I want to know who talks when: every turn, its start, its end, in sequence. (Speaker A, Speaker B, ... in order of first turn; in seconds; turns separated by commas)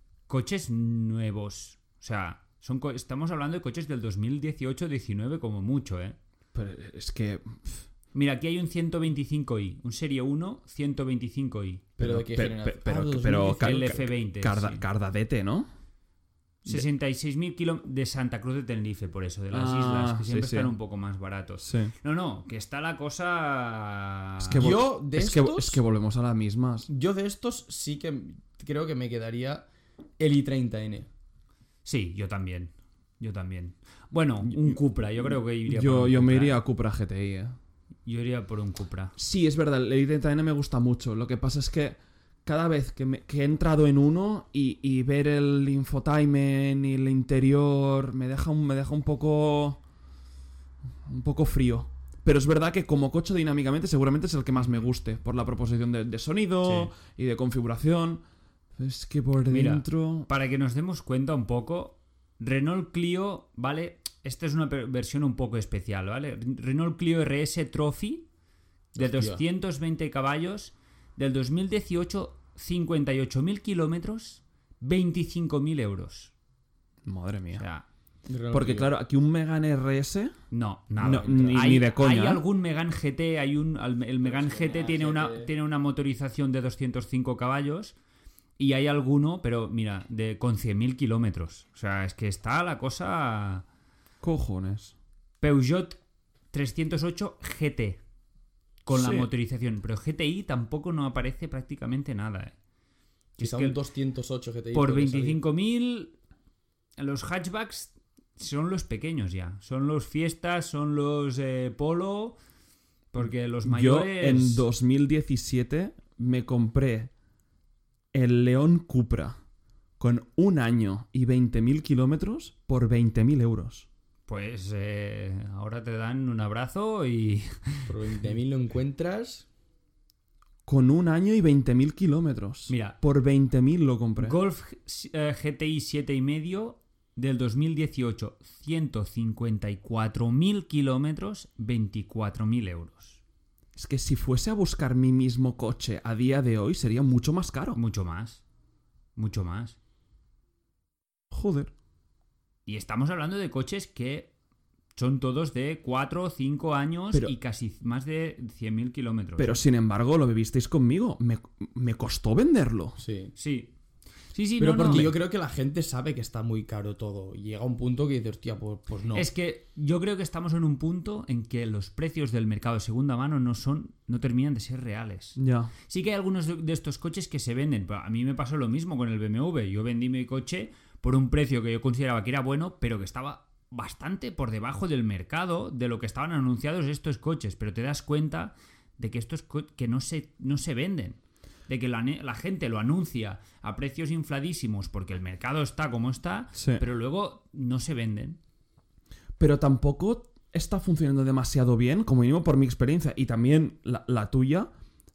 Speaker A: 0.3-6.2, Speaker B: 6.5-7.8, Speaker A: 8.1-11.9, Speaker C: 12.0-14.0, Speaker B: 12.0-15.7, Speaker A: 13.6-14.8, Speaker A: 16.6-24.6, Speaker B: 19.5-20.7, Speaker B: 21.6-21.9, Speaker B: 24.4-26.9, Speaker C: 24.6-25.8, Speaker C: 26.9-29.6, Speaker C: 30.2-31.1, Speaker A: 31.8-36.6, Speaker B: 34.5-34.8, Speaker B: 35.7-37.5, Speaker A: 38.0-39.1, Speaker B: 39.1-49.8, Speaker B: 51.1-58.2, Speaker A: 56.6-56.9, Speaker B: 58.8-60.3, Speaker A: 59.5-68.2, Speaker C: 68.9-69.4, Speaker A: 69.0-76.3, Speaker B: 77.0-77.6, Speaker A: 77.5-77.8, Speaker C: 78.3-78.9, Speaker B: 78.5-80.3, Speaker A: 80.5-87.9, Speaker B: 81.0-82.4, Speaker C: 81.1-81.7, Speaker C: 84.2-85.5, Speaker A: 88.6-93.6, Speaker B: 94.2-94.9, Speaker A: 95.4-96.0, Speaker A: 96.5-98.0, Speaker A: 98.8-102.5, Speaker B: 98.9-99.3, Speaker C: 103.4-105.4, Speaker A: 103.4-103.8, Speaker A: 104.7-106.1, Speaker A: 107.0-112.4, Speaker A: 113.1-114.6, Speaker B: 113.6-117.1, Speaker B: 118.1-119.4, Speaker B: 120.0-123.8, Speaker A: 124.3-127.9, Speaker C: 127.9-129.4, Speaker B: 130.7-134.4, Speaker A: 132.7-133.0, Speaker A: 134.2-143.2, Speaker B: 143.8-147.8, Speaker A: 147.7-148.4, Speaker A: 149.2-149.8, Speaker B: 151.3-151.7, Speaker A: 152.7-154.3, Speaker A: 154.9-159.6, Speaker B: 159.4-163.0, Speaker C: 163.0-163.3, Speaker A: 163.3-163.7, Speaker A: 164.3-165.1, Speaker C: 164.6-169.3, Speaker A: 169.1-198.4, Speaker B: 175.4-175.7, Speaker B: 196.6-196.8, Speaker B: 199.4-204.7